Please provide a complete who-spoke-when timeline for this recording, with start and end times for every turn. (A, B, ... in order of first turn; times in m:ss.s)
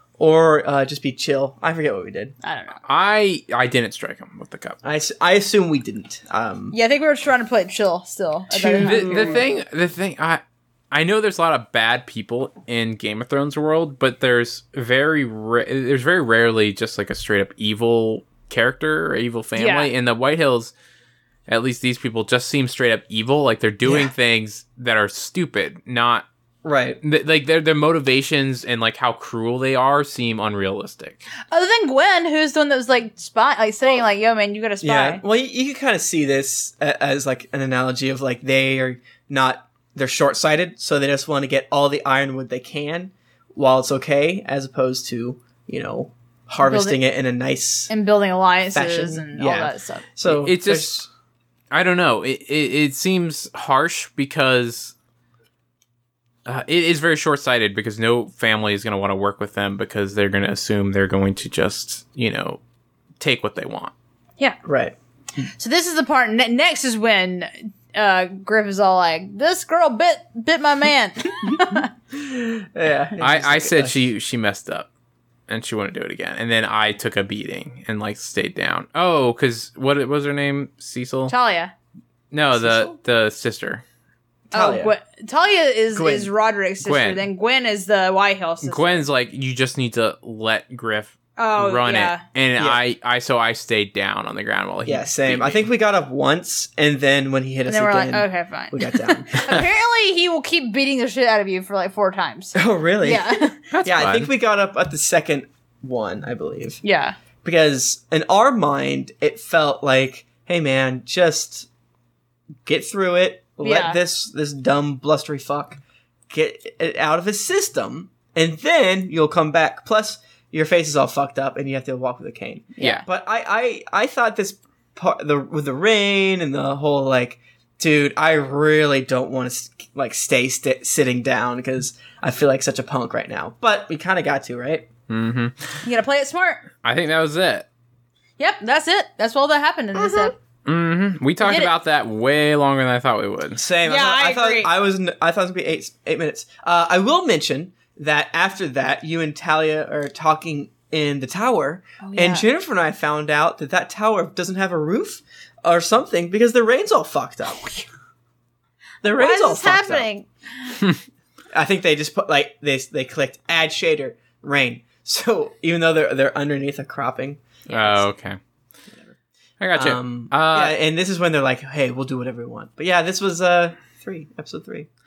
0:00.2-0:02.3 A
0:02.4-0:02.8 B
0:02.8-0:04.8 C
0:04.8-0:06.7 A
0:06.7-0:09.4 B
0:08.5-0:09.5 A
0:08.8-0:20.7 C
0:19.6-0:19.9 B
0:21.5-0:26.2 C
0:23.8-0:24.1 A
0:26.6-0:27.0 A
0:27.0-0:31.2 C
0:31.5-0:35.2 B
0:34.8-0:47.9 A
0:46.6-0:47.0 B
0:47.9-0:50.1 B
0:48.7-0:51.1 A
0:50.2-0:51.0 C
0:51.7-0:54.9 C
0:56.4-1:02.6 C
1:03.2-1:03.9 C
1:04.6-1:04.9 A
1:05.4-1:11.9 B
1:12.1-1:14.0 A
1:13.2-1:14.9 C
1:15.5-1:21.3 C
1:21.3-1:21.7 B
1:22.3-1:23.8 C
1:22.5-1:23.0 A
1:24.5-1:24.9 A
1:24.5-1:29.0 B
1:25.9-1:26.3 A
1:26.8-1:27.2 C
1:28.6-1:35.7 C
1:31.4-1:32.2 B
1:34.8-1:39.6 A
1:37.7-1:43.6 B
1:42.5-1:46.8 A
1:43.7-1:44.3 C
1:46.8-1:47.2 B
1:47.4-1:51.7 A
1:52.6-1:55.8 A
1:53.6-1:54.0 B
1:56.3-2:14.9 A
2:02.8-2:03.0 B
2:15.1-2:15.8 C
2:15.8-2:16.6 B
2:16.8-2:17.7 C
2:18.4-2:20.3 B
2:20.6-2:23.6 C
2:21.4-2:21.7 B
2:23.6-2:37.7 A
2:23.8-2:24.7 B
2:32.0-2:32.5 B
2:39.0-2:40.1 A
2:39.0-2:40.3 B
2:41.5-2:48.0 A
2:47.7-2:48.4 C
2:49.6-2:50.8 C
2:49.7-2:54.9 A